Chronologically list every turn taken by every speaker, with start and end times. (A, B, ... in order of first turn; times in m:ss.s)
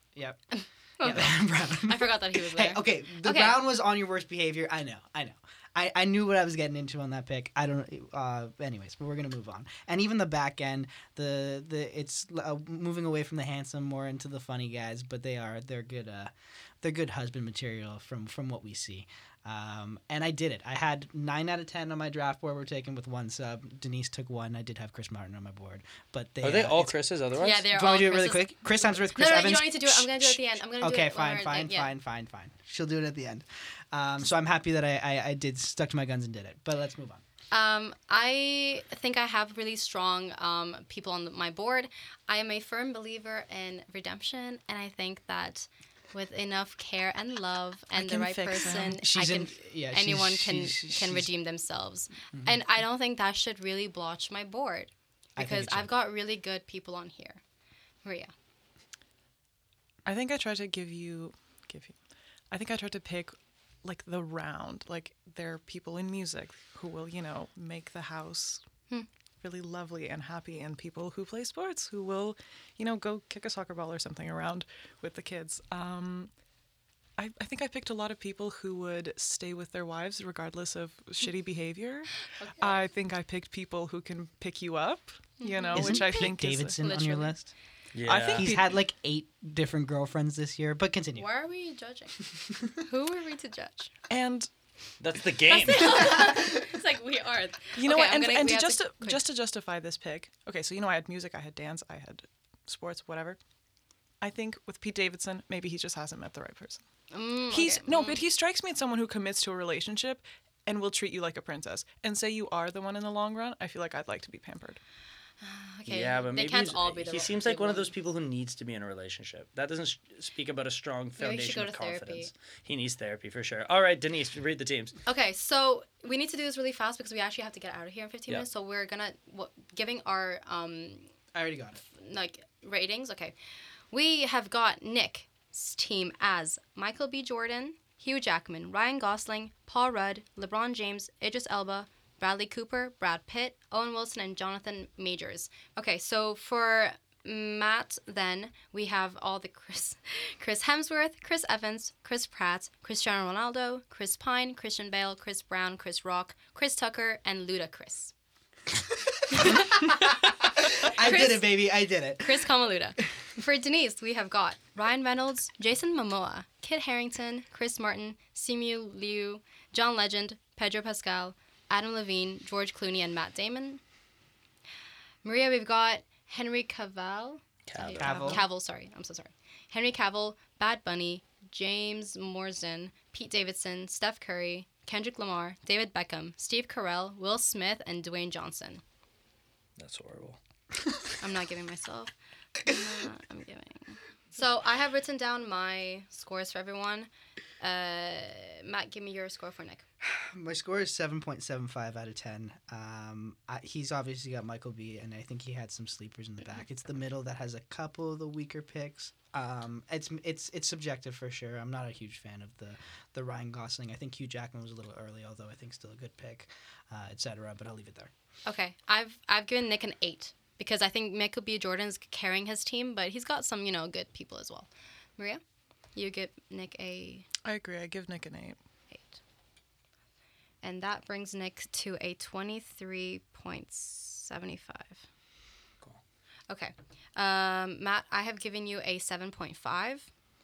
0:00.5-0:03.7 A
0:01.0-0:27.0 B
0:26.4-0:27.7 C
0:27.4-0:31.9 A
0:27.6-0:37.2 B
0:37.5-0:57.4 A
0:47.9-0:49.0 D
0:49.0-0:51.3 B
0:55.4-0:55.9 B
0:58.0-0:58.3 A
1:00.1-1:02.0 D
1:02.5-1:08.6 D
1:09.4-1:16.3 D
1:17.2-1:26.8 D
1:22.4-1:22.8 A
1:25.4-1:27.4 A
1:25.7-1:27.5 B
1:27.9-1:28.6 C
1:28.1-1:28.8 D
1:28.2-1:31.3 B
1:31.2-1:33.9 A
1:34.1-1:34.5 D
1:35.0-1:36.2 C
1:35.5-1:39.2 A
1:37.8-1:43.4 D
1:44.2-1:46.8 D
1:47.1-1:48.2 A
1:47.5-1:54.8 D
1:55.4-1:57.9 A
1:55.9-2:05.0 C
2:01.2-2:02.3 A
2:05.1-2:11.1 A
2:11.3-2:11.8 B
2:12.0-2:13.4 A
2:13.9-2:38.1 A
2:39.1-2:42.5 B
2:39.3-2:41.6 A
2:42.2-2:53.8 A
2:55.2-3:08.8 A
2:57.7-2:58.4 C
2:58.0-2:58.5 B
3:09.8-3:10.4 C
3:11.2-3:17.1 A
3:17.6-3:19.8 A
3:20.1-3:38.1 B
3:38.4-3:45.4 A
3:45.9-3:47.3 A
3:47.4-3:48.6 D
3:48.9-3:49.2 A
3:50.6-3:55.0 A
3:56.5-4:00.1 A